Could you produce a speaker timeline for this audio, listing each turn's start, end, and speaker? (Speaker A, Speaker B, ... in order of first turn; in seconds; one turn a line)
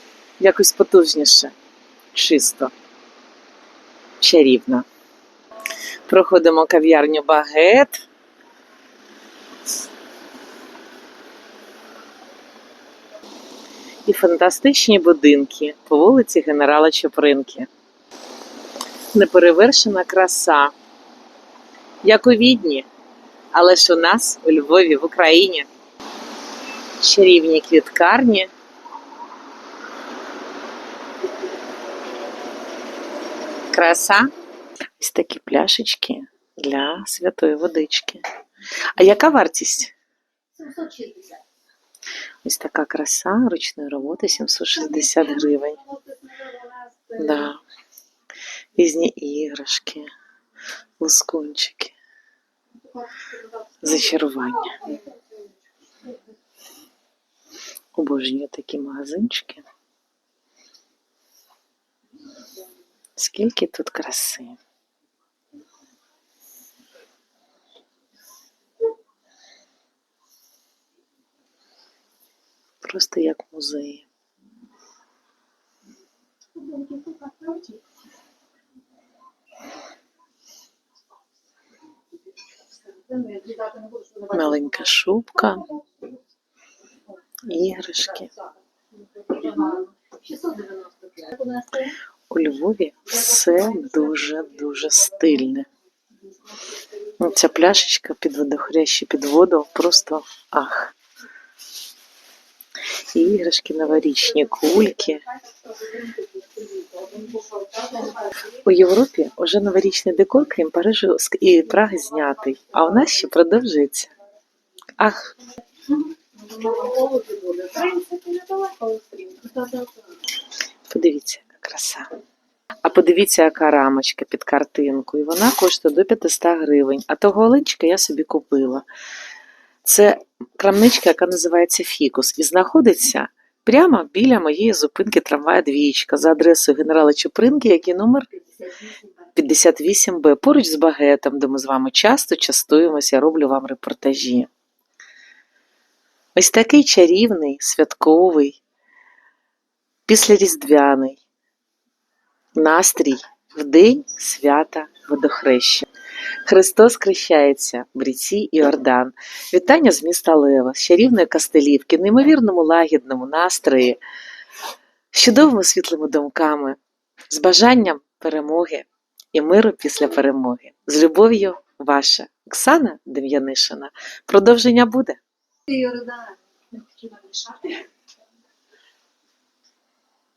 Speaker A: 0.4-1.5
Speaker A: 2.1-2.7
Speaker A: 4.2-4.8
Speaker A: 6.1-8.0
Speaker A: 14.0-17.7
Speaker A: 19.1-20.7
Speaker A: 22.0-22.9
Speaker A: 23.5-25.7
Speaker A: 27.0-28.5
Speaker A: 33.7-34.3
Speaker A: 35.0-38.2
Speaker A: 39.0-39.9
Speaker B: 40.6-41.4
Speaker A: 42.4-45.8
Speaker B: 46.1-47.1
Speaker A: 47.1-47.6
Speaker A: 48.7-50.1
Speaker A: 51.0-51.9
Speaker B: 52.9-53.7
Speaker A: 53.8-54.9
Speaker B: 54.8-55.4
Speaker A: 57.9-59.6
Speaker A: 63.1-64.6
Speaker A: 72.8-74.0
Speaker B: 76.6-77.8
Speaker B: 82.7-84.7
Speaker A: 84.3-85.7
Speaker B: 85.7-86.1
Speaker A: 87.4-88.3
Speaker B: 88.4-91.9
Speaker A: 92.3-95.7
Speaker A: 97.2-100.9
Speaker A: 103.1-105.2
Speaker B: 105.6-108.2
Speaker A: 108.4-114.1
Speaker A: 115.0-115.3
Speaker B: 116.3-119.9
Speaker A: 120.9-122.1
Speaker A: 122.8-128.8
Speaker A: 129.8-138.3
Speaker B: 138.6-139.1
Speaker A: 139.3-144.5
Speaker A: 146.3-148.6
Speaker A: 150.1-151.2
Speaker A: 152.6-155.9
Speaker A: 156.4-164.0
Speaker A: 165.1-166.8
Speaker A: 167.3-175.2
Speaker B: 175.7-177.9